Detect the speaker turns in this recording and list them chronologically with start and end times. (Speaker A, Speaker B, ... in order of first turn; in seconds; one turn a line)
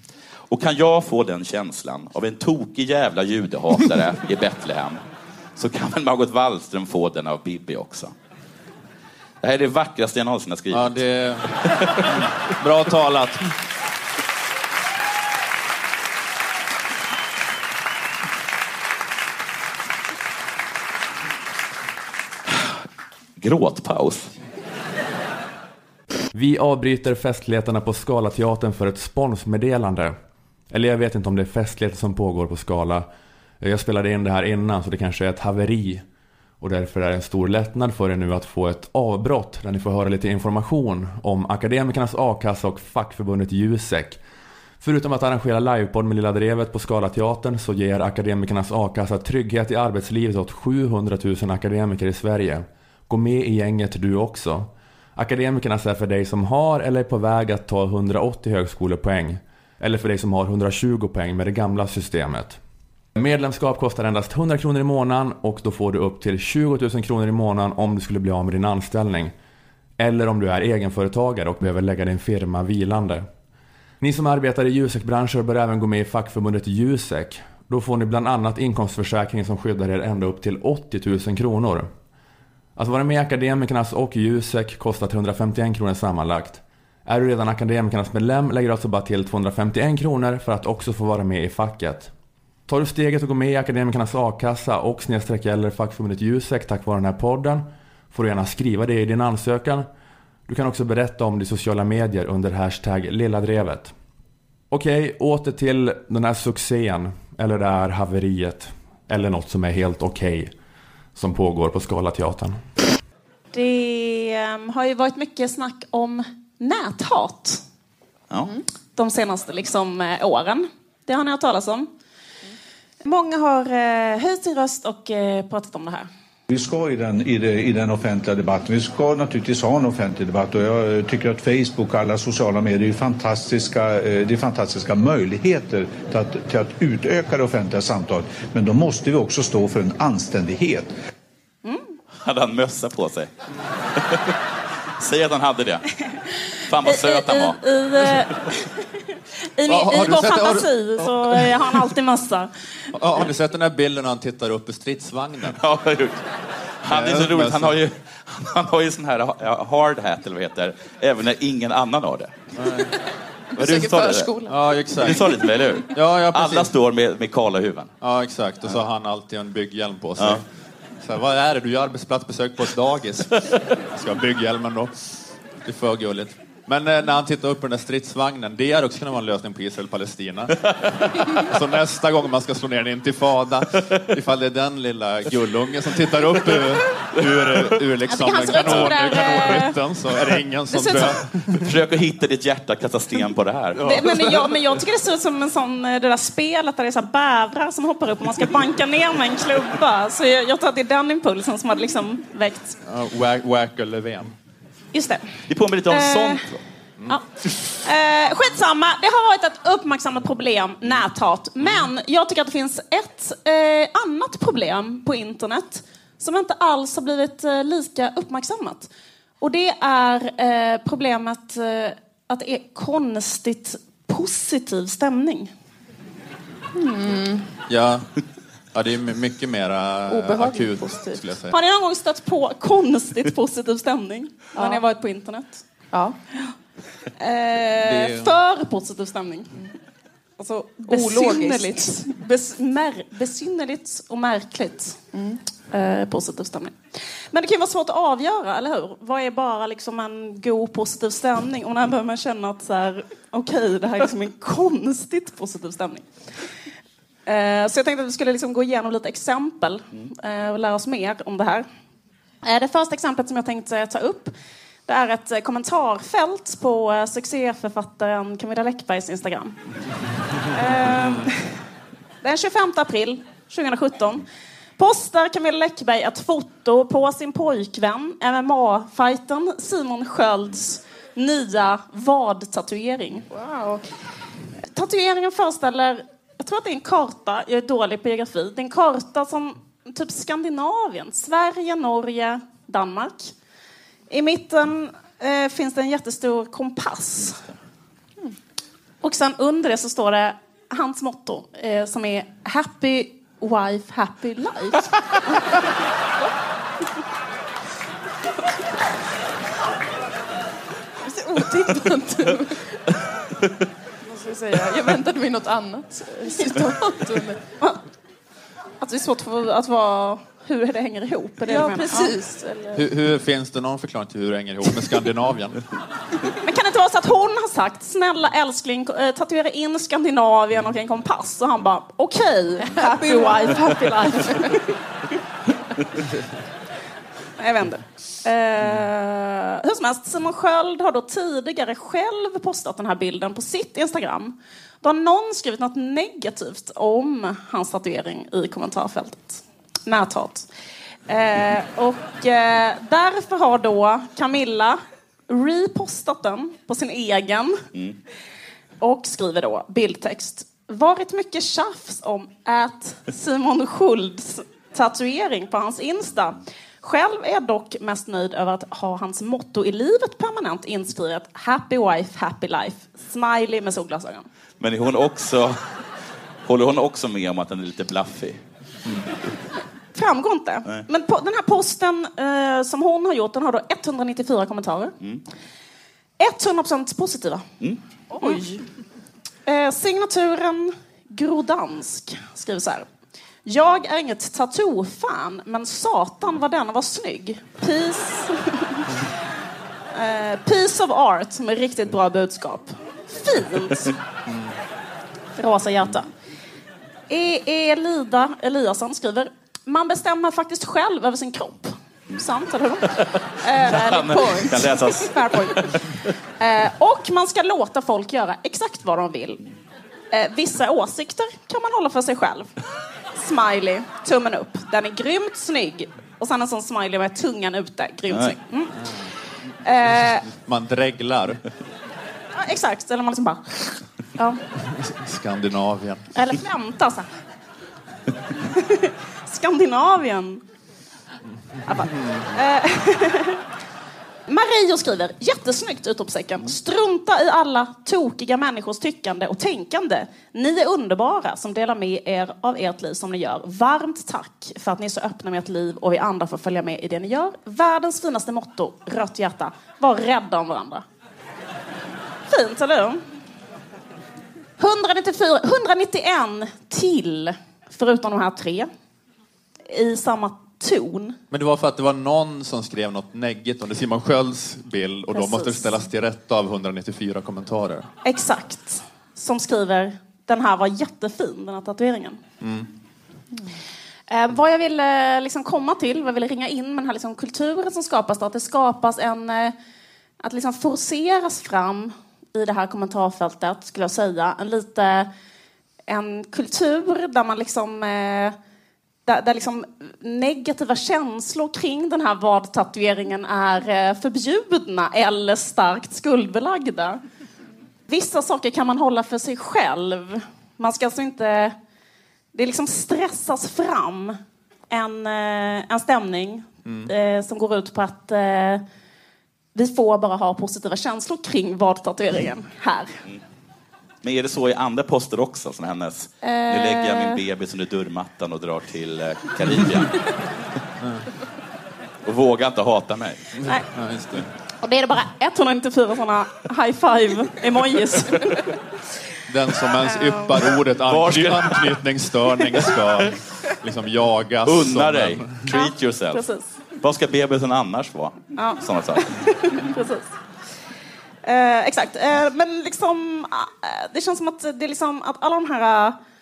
Speaker A: 0.5-5.0
Speaker A: 5.6-8.1
Speaker A: 9.4-11.0
Speaker B: 10.7-11.6
Speaker B: 12.6-13.5
Speaker A: 23.4-24.3
Speaker C: 26.3-30.2
Speaker C: 30.7-33.1
Speaker C: 33.6-36.0
Speaker C: 36.6-44.2
Speaker C: 44.8-62.6
Speaker C: 63.2-69.3
Speaker C: 70.0-73.3
Speaker C: 74.0-81.9
Speaker C: 82.8-92.1
Speaker C: 92.7-99.9
Speaker C: 100.5-103.9
Speaker C: 104.7-110.5
Speaker C: 111.2-112.6
Speaker D: 113.5-117.6
Speaker D: 119.0-121.9
Speaker D: 123.0-126.1
Speaker E: 126.5-140.9
Speaker D: 141.7-141.9
Speaker A: 142.2-143.3
Speaker A: 144.0-144.4
Speaker A: 145.0-145.9
Speaker A: 146.7-147.6
Speaker D: 146.8-152.5
Speaker B: 149.7-151.8
Speaker B: 152.9-155.6
Speaker A: 155.6-156.2
Speaker A: 156.8-162.4
Speaker B: 156.9-157.8
Speaker B: 162.6-162.9
Speaker A: 163.6-164.3
Speaker F: 163.6-164.6
Speaker B: 164.5-165.2
Speaker A: 165.0-167.9
Speaker B: 165.9-166.7
Speaker B: 168.0-170.4
Speaker B: 171.0-175.1
Speaker B: 175.6-180.7
Speaker A: 180.7-181.4
Speaker B: 181.4-191.5
Speaker A: 187.2-187.8
Speaker D: 188.1-189.8
Speaker A: 188.6-189.2
Speaker D: 190.7-191.1
Speaker A: 191.6-193.9
Speaker B: 193.8-194.5
Speaker D: 193.8-202.8
Speaker B: 202.9-204.3
Speaker D: 204.9-205.3
Speaker A: 205.5-206.6
Speaker D: 205.9-206.5
Speaker D: 207.8-218.9
Speaker D: 219.4-225.5
Speaker F: 226.8-227.4
Speaker B: 227.7-228.1
Speaker B: 228.7-231.5
Speaker F: 230.1-231.2
Speaker D: 231.5-235.6
Speaker F: 234.6-234.8
Speaker D: 237.2-239.7
Speaker B: 237.8-238.4
Speaker D: 240.4-245.0
Speaker F: 240.9-242.0
Speaker F: 245.1-245.4
Speaker D: 245.7-256.1
Speaker D: 257.3-261.7
Speaker D: 262.4-264.3
Speaker D: 264.9-269.6
Speaker D: 270.5-271.6
Speaker D: 272.2-274.3
Speaker D: 274.8-283.3
Speaker F: 283.3-283.8
Speaker D: 284.7-293.3
Speaker D: 294.1-297.4
Speaker D: 299.0-304.9
Speaker F: 311.1-312.6
Speaker F: 314.1-317.4
Speaker D: 318.8-322.2
Speaker F: 321.4-322.9
Speaker B: 322.8-325.6
Speaker D: 326.3-334.6
Speaker F: 332.9-333.7
Speaker D: 337.4-350.5
Speaker D: 351.1-357.6
Speaker D: 358.8-374.3
Speaker A: 374.6-375.6
Speaker A: 376.5-378.4
Speaker D: 379.9-384.9
Speaker D: 386.2-387.5
Speaker D: 388.1-388.6
Speaker D: 389.5-392.9
Speaker D: 393.4-398.9
Speaker D: 399.9-403.9
Speaker D: 405.4-406.1
Speaker D: 407.1-413.9
Speaker F: 413.6-414.7
Speaker A: 413.8-415.8
Speaker D: 415.1-415.7
Speaker D: 416.4-419.4
Speaker D: 420.1-422.5
Speaker D: 423.2-428.7
Speaker D: 429.6-430.3
Speaker B: 430.4-431.4
Speaker D: 432.4-434.4
Speaker B: 434.7-436.1
Speaker D: 436.1-437.1
Speaker D: 438.5-440.4
Speaker D: 441.7-443.4
Speaker B: 441.8-442.2
Speaker D: 444.3-460.8
Speaker D: 462.3-463.0
Speaker D: 464.6-468.7
Speaker D: 469.7-471.2
Speaker B: 471.3-477.9
Speaker D: 475.1-475.6
Speaker D: 478.1-482.2
Speaker B: 482.4-482.7
Speaker D: 484.1-489.5
Speaker D: 490.2-495.1
Speaker D: 495.9-498.4
Speaker D: 499.1-507.0
Speaker D: 507.9-511.6
Speaker D: 512.3-514.2
Speaker D: 514.7-518.6
Speaker B: 516.7-516.9
Speaker D: 519.5-523.0
Speaker A: 524.0-530.0
Speaker D: 526.2-527.2
Speaker A: 532.0-533.3
Speaker B: 533.4-534.2
Speaker D: 534.6-538.5
Speaker B: 539.3-545.4
Speaker D: 539.8-540.3
Speaker A: 540.9-541.7
Speaker A: 544.5-546.2
Speaker D: 545.5-546.5
Speaker A: 546.8-549.1
Speaker D: 548.4-550.1
Speaker D: 551.2-556.0